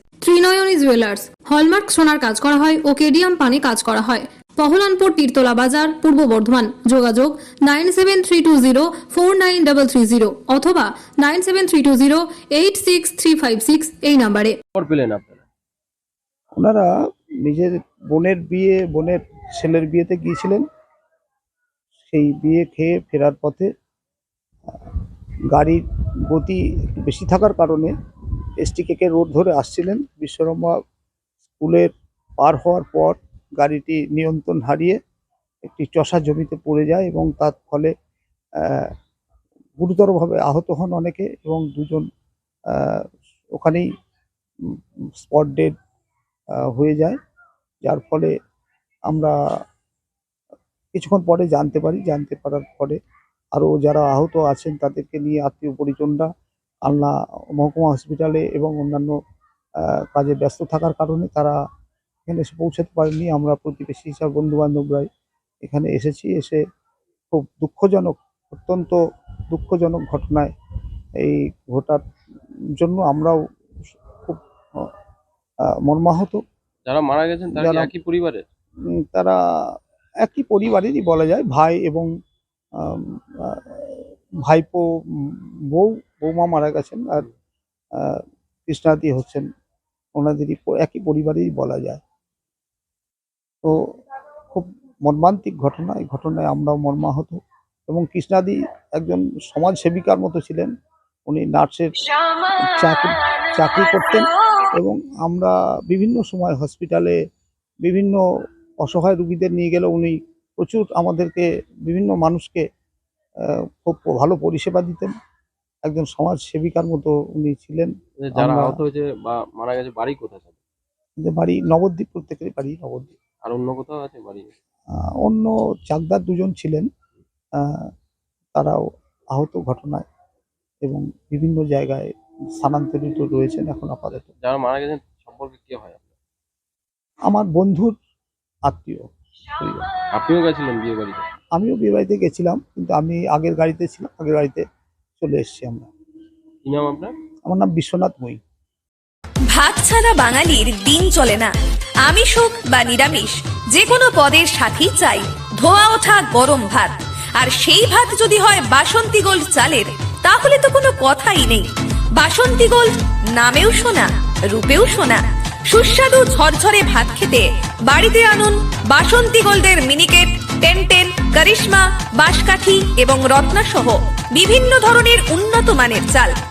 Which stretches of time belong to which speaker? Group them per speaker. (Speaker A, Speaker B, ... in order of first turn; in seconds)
Speaker A: 0.2-14.6
Speaker B: 14.8-15.4, 76.9-78.5, 118.2-120.5, 123.4-124.5, 134.4-136.1, 140.1-141.2, 146.6-147.1
Speaker C: 16.6-16.9, 17.4-20.6, 22.1-23.7, 25.5-27.9, 28.6-30.8, 31.6-35.0, 35.6-37.9, 38.6-38.9, 39.8-42.0, 42.7-43.0, 43.5-43.9, 44.7-45.7, 46.7-47.2, 47.8-48.3, 49.1-49.3, 50.9-53.0, 53.5-56.3, 56.8-59.2, 60.1-61.6, 62.2-65.1, 65.6-66.6, 67.3-69.0, 69.5-70.5, 71.2-72.0, 72.8-73.4, 74.2-74.9, 75.7-76.4, 77.5-77.9, 79.0-82.1, 82.8-87.3, 88.0-89.5, 90.2-92.0, 94.5-100.7, 101.3-102.0, 102.8-107.2, 107.8-108.2, 108.8-112.6, 113.5-115.1, 115.8-118.8, 121.2-123.1, 124.9-126.9, 127.6-127.9, 128.6-130.1, 130.8-134.3, 137.3-137.9, 138.7-139.9, 141.5-144.6, 145.2-145.9, 147.5-148.4
Speaker D: 149.5-151.5, 152.0-176.3